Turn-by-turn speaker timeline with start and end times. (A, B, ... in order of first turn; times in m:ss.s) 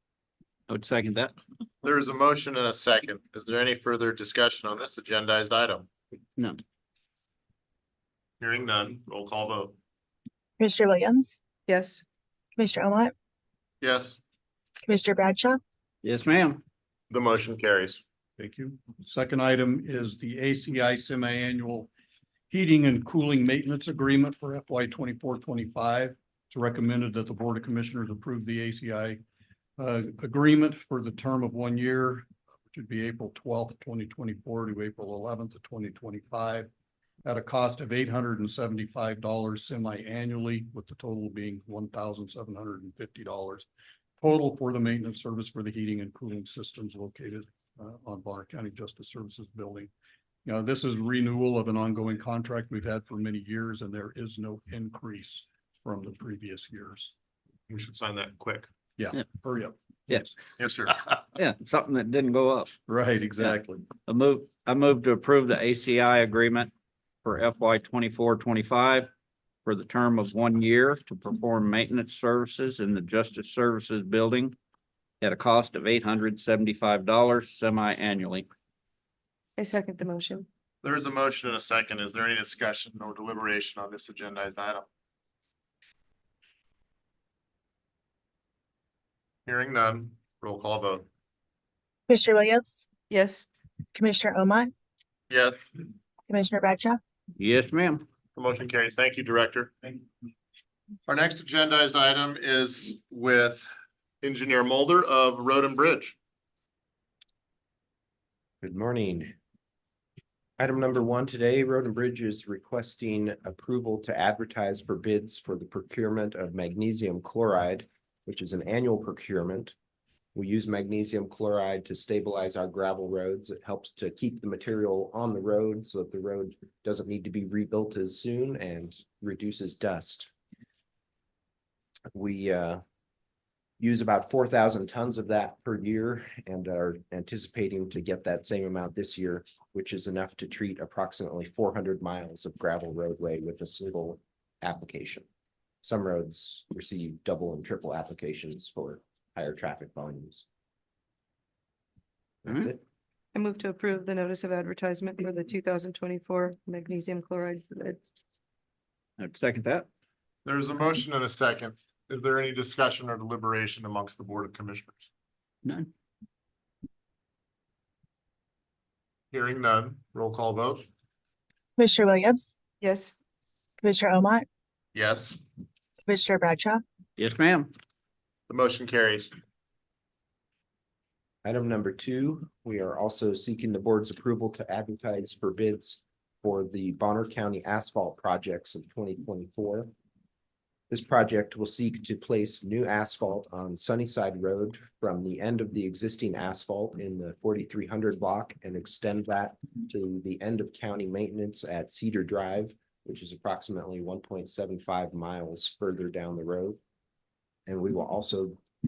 0:00.7-0:01.3 A
0:01.8-0:05.9 B
0:08.4-0:09.8 B
0:10.6-0:11.4 C
0:11.7-0:12.0 D
0:12.6-0:13.1 C
0:13.8-0:14.2 B
0:14.8-0:15.6 C
0:16.0-0:16.6 A
0:17.1-0:18.0 B
0:18.4-0:21.9 E
0:22.5-0:29.2 E
0:29.8-0:36.7 E
0:37.2-0:43.7 E
0:44.2-0:49.9 E
0:50.4-0:57.1 E
0:57.7-0:58.7 B
0:59.0-1:00.4 E
1:00.6-1:01.0 B
1:01.3-1:02.7 A
1:02.9-1:03.9 E
1:04.1-1:06.7 A
1:07.2-1:09.1 A
1:09.6-1:14.6 A
1:15.2-1:18.5 A
1:19.6-1:20.5 D
1:20.8-1:24.9 B
1:29.5-1:31.1 B
1:32.1-1:32.8 C
1:33.1-1:33.5 D
1:33.9-1:34.7 C
1:35.3-1:35.6 B
1:36.3-1:37.0 C
1:37.4-1:38.0 A
1:38.4-1:40.0 B
1:41.1-1:43.7 B
1:44.2-1:46.2 B
1:48.6-1:49.4 F
1:50.6-1:59.8 F
2:00.3-2:10.3 F
2:12.1-2:12.8 F
2:13.8-2:25.3 F
2:25.8-2:30.5 F
2:32.4-2:32.8 F
2:33.3-2:38.0 D
2:39.2-2:39.9 A
2:40.4-2:45.1 B
2:45.6-2:45.9 A
2:49.3-2:50.8 B
2:51.8-2:52.5 C
2:52.8-2:53.1 D
2:53.8-2:54.5 C
2:55.0-2:55.4 B
2:56.1-2:56.8 C
2:57.2-2:57.7 A
2:58.5-2:59.3 B
3:01.4-3:09.9 F
3:10.9-3:26.8 F
3:27.7-3:28.6 F